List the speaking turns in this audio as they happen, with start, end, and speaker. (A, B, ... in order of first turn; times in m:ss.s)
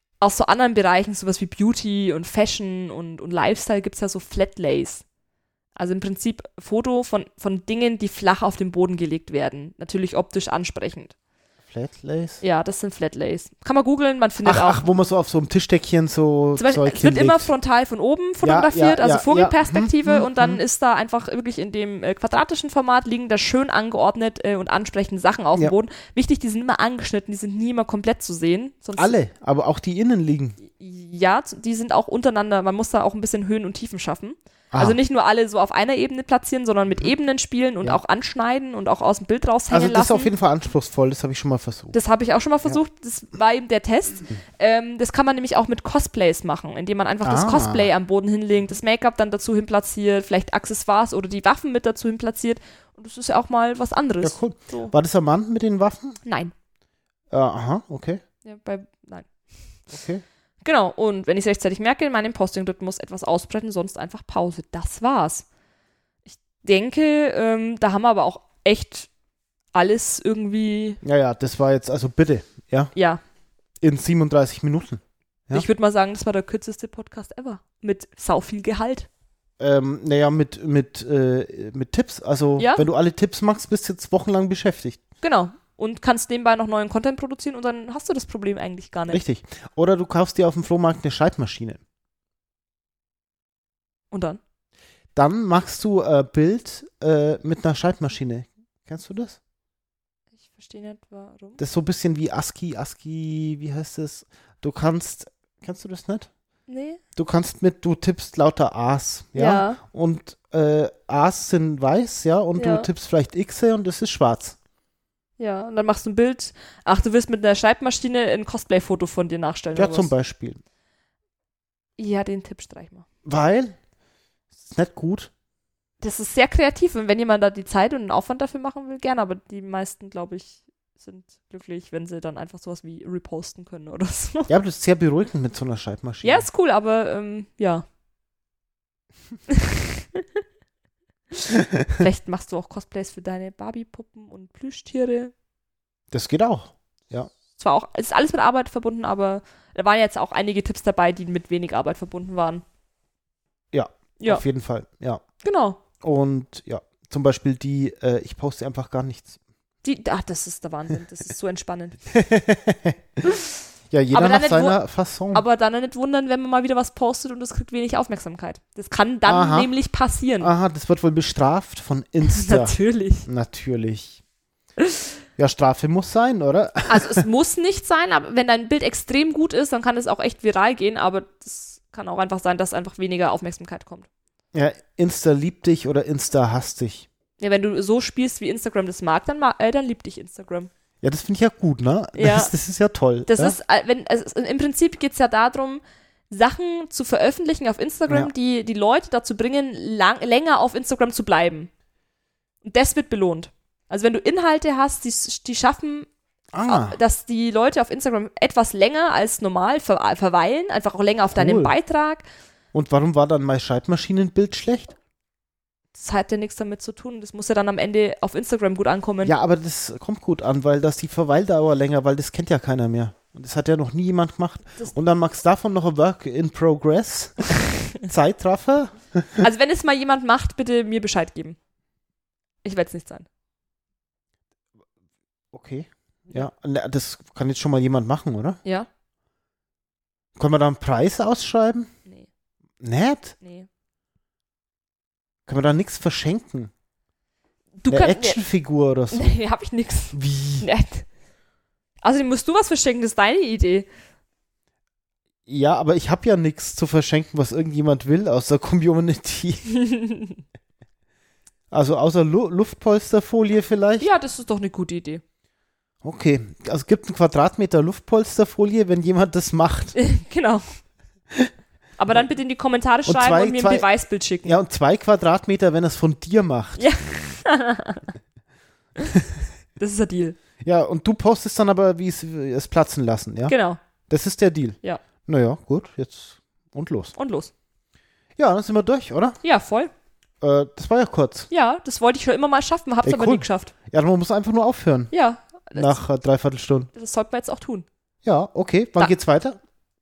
0:00.2-0:05.0 A
0:05.8-0:11.1 A
0:11.7-0:12.4 B
0:12.4-0:14.9 A
0:14.4-0:17.5 B
0:16.5-0:29.1 A
0:18.4-0:20.6 B
0:29.0-0:30.6 B
0:30.6-0:40.3 A
0:34.7-0:35.0 B
0:39.7-0:41.9 B
0:41.9-0:54.9 A
0:47.2-0:47.9 B
0:54.2-0:56.2 B
0:56.2-0:56.5 A
0:57.3-0:58.2 B
0:58.4-0:59.3 A
0:59.9-1:00.2 B
1:00.6-1:05.4 A
1:06.3-1:09.1 A
1:09.7-1:11.0 A
1:11.0-1:12.9 B
1:12.9-1:13.2 A
1:13.8-1:15.6 B
1:15.5-1:19.1 A
1:19.6-1:25.0 B
1:22.6-1:22.8 A
1:25.2-1:29.2 A
1:29.1-1:31.8 B
1:34.1-1:34.4 A
1:35.2-1:39.4 B
1:40.4-1:41.6 A
1:41.6-1:46.3 B
1:46.7-1:47.0 A
1:47.2-1:54.6 B
1:49.3-1:49.8 A
1:52.6-1:52.9 A
1:55.4-2:00.1 A
1:59.8-2:00.6 B
2:02.0-2:03.0 A
2:03.2-2:03.8 B
2:04.6-2:05.3 B
2:06.0-2:14.5 A
2:14.5-2:16.4 B
2:16.2-2:17.8 A
2:19.5-2:20.2 A
2:21.4-2:25.3 A
2:26.1-2:27.3 B
2:27.6-2:32.6 A
2:33.7-2:35.2 B
2:35.4-2:35.8 A
2:36.0-2:39.4 B
2:39.8-2:42.0 A
2:42.1-2:43.2 B
2:43.9-2:45.4 B
2:44.1-2:44.8 A
2:45.3-2:50.5 A
2:49.2-2:49.7 B
2:50.4-2:54.2 B
2:52.2-2:53.3 A
2:54.8-2:55.0 A
2:55.4-2:57.2 B
2:56.9-3:04.1 A
3:04.5-3:07.1 B
3:07.4-3:10.7 A
3:11.0-3:13.5 B
3:12.2-3:12.5 A
3:13.3-3:21.7 A
3:22.6-3:26.1 A
3:26.5-3:27.0 B
3:26.6-3:32.2 A
3:31.3-3:31.7 B
3:32.7-3:35.0 B
3:35.9-3:39.3 A
3:39.2-3:49.4 B
3:49.4-3:51.6 A
3:52.6-3:53.2 A
3:55.5-3:58.6 B
4:00.4-4:01.9 B
4:02.8-4:03.3 B
4:03.4-4:03.7 A
4:05.5-4:06.7 B
4:07.8-4:08.4 A
4:07.9-4:09.3 B
4:09.1-4:11.0 A
4:10.1-4:10.7 B
4:12.0-4:13.9 A
4:15.5-4:19.7 B
4:19.7-4:20.4 A
4:21.7-4:24.1 B
4:24.0-4:25.2 A
4:26.0-4:29.9 B
4:29.9-4:30.6 A
4:32.0-4:34.6 A
4:33.0-4:33.9 B
4:34.4-4:36.9 B
4:36.8-4:38.0 A
4:39.8-4:40.4 A
4:40.6-4:43.5 B
4:43.5-4:43.8 A
4:44.1-4:47.1 B
4:47.2-4:47.5 A
4:48.4-4:49.4 B
4:49.4-4:49.9 A
4:50.4-4:51.5 B
4:51.5-4:53.7 A
4:53.0-4:55.1 B
4:55.1-4:56.0 A
4:55.7-4:56.9 B
4:56.9-4:57.8 A
4:58.2-4:59.6 B